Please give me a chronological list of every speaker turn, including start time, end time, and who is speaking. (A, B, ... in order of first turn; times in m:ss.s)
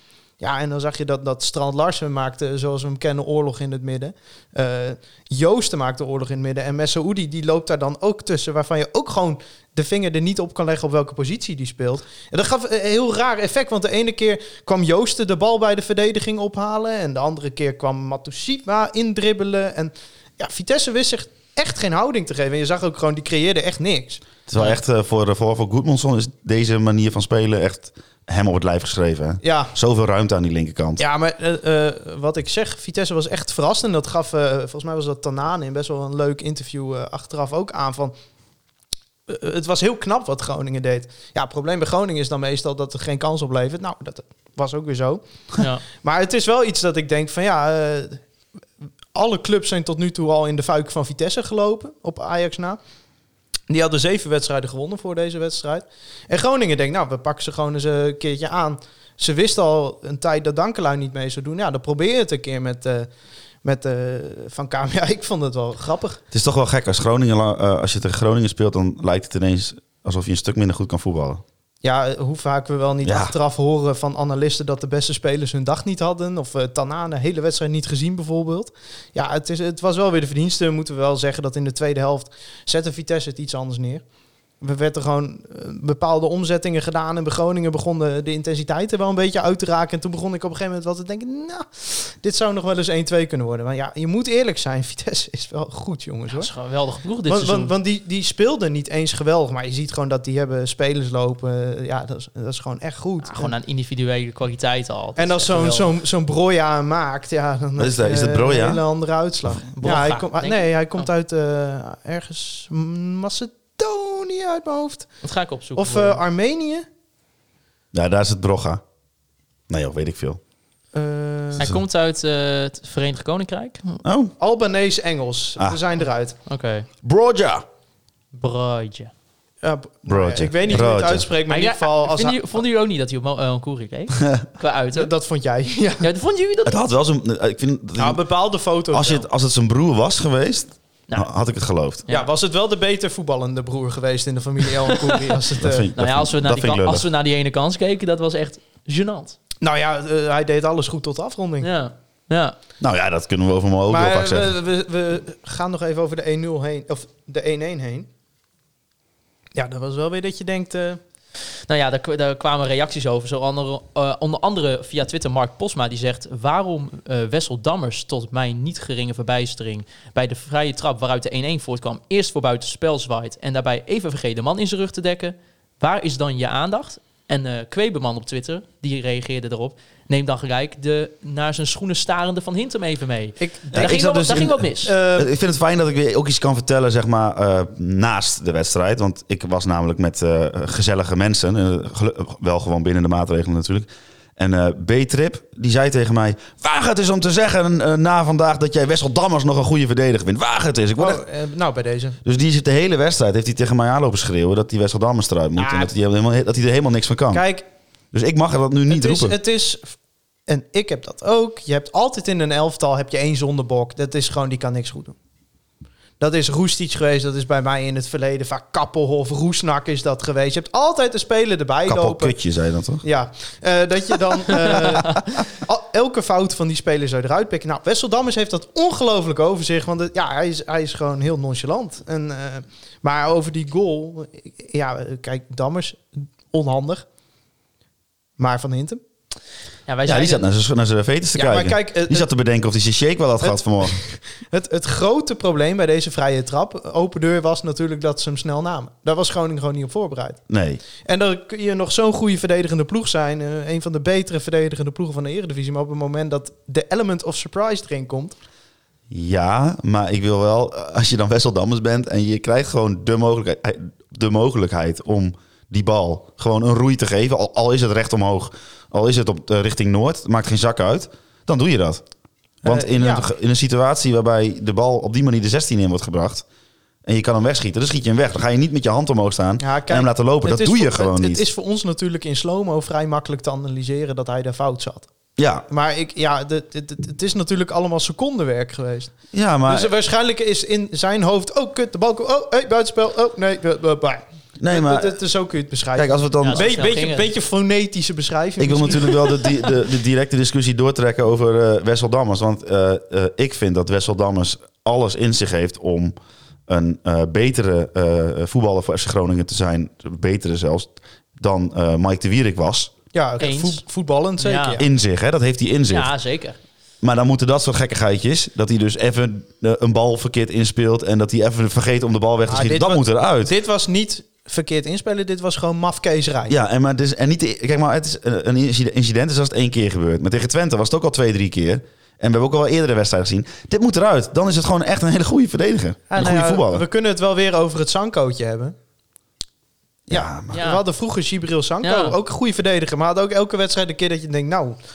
0:00.4-0:24.2 A
0:24.5-0:31.0 B
0:29.4-0:29.7 A
0:31.0-0:38.1 A
0:39.3-0:45.2 A
0:45.9-0:48.2 A
0:49.1-0:52.8 A
0:53.7-1:03.1 A
1:03.6-1:06.2 A
1:06.3-1:11.4 B
1:11.8-1:24.0 A
1:13.0-1:13.3 B
1:24.6-1:36.5 A
1:36.3-1:37.7 C
1:37.3-1:43.5 A
1:43.2-1:45.9 C
1:45.2-1:55.1 A
1:47.8-1:48.8 B
1:49.7-1:51.0 C
1:55.2-1:56.2 C
1:55.8-1:56.8 A
1:57.9-1:58.8 B
1:59.7-2:00.4 B
2:00.9-2:01.6 A
2:01.6-2:04.0 C
2:04.0-2:04.3 B
2:04.4-2:06.4 A
2:06.5-2:06.9 C
2:07.0-2:07.6 B
2:08.3-2:09.1 C
2:09.6-2:12.4 A
2:10.1-2:11.2 B
2:11.5-2:15.1 C
2:14.2-2:14.5 B
2:14.9-2:16.1 A
2:16.0-2:16.8 C
2:16.6-2:18.2 B
2:18.0-2:19.2 A
2:18.9-2:22.0 B
2:22.1-2:25.9 A
2:24.8-2:25.4 C
2:25.6-2:27.0 B
2:25.9-2:29.4 C
2:29.6-2:31.7 A
2:31.6-2:32.6 C
2:32.8-2:34.5 B
2:33.9-2:38.1 A
2:39.5-2:41.0 A
2:41.7-3:04.9 C
3:03.4-3:05.3 A
3:03.7-3:21.2 B
3:21.0-3:22.2 A
3:22.2-3:27.4 B
3:25.6-3:25.9 A
3:27.3-3:27.6 A
3:28.1-3:29.4 B
3:28.9-3:30.0 A
3:30.5-3:35.2 A
3:36.2-3:42.4 A
3:41.9-3:43.0 B
3:43.0-3:57.0 A
3:44.8-3:45.2 B
3:58.4-3:59.0 A
3:59.9-4:00.4 C
4:00.0-4:04.0 B
4:01.3-4:02.3 A
4:03.4-4:10.4 A
4:10.5-4:10.8 B
4:11.0-4:18.4 A
4:19.1-4:32.0 B
4:32.6-4:36.4 B
4:32.6-4:33.3 A
4:37.0-4:41.4 B
4:39.6-4:45.1 A
4:45.4-4:45.6 B
4:45.7-4:49.1 A
4:49.3-4:49.9 B
4:49.6-4:59.5 A
4:54.6-4:55.2 B
4:55.9-4:56.7 B
4:56.4-4:57.3 C
4:58.6-5:06.1 B
5:06.7-5:12.9 B
5:13.1-5:14.9 A
5:13.4-5:13.8 C
5:14.4-5:14.8 C
5:14.8-5:16.1 B
5:15.9-5:16.6 C
5:17.0-5:23.5 B
5:22.5-5:26.5 A
5:26.5-5:36.8 B
5:36.1-5:38.7 A
5:40.1-5:40.6 B
5:40.1-5:44.8 A
5:40.5-5:40.8 C
5:41.8-5:42.2 C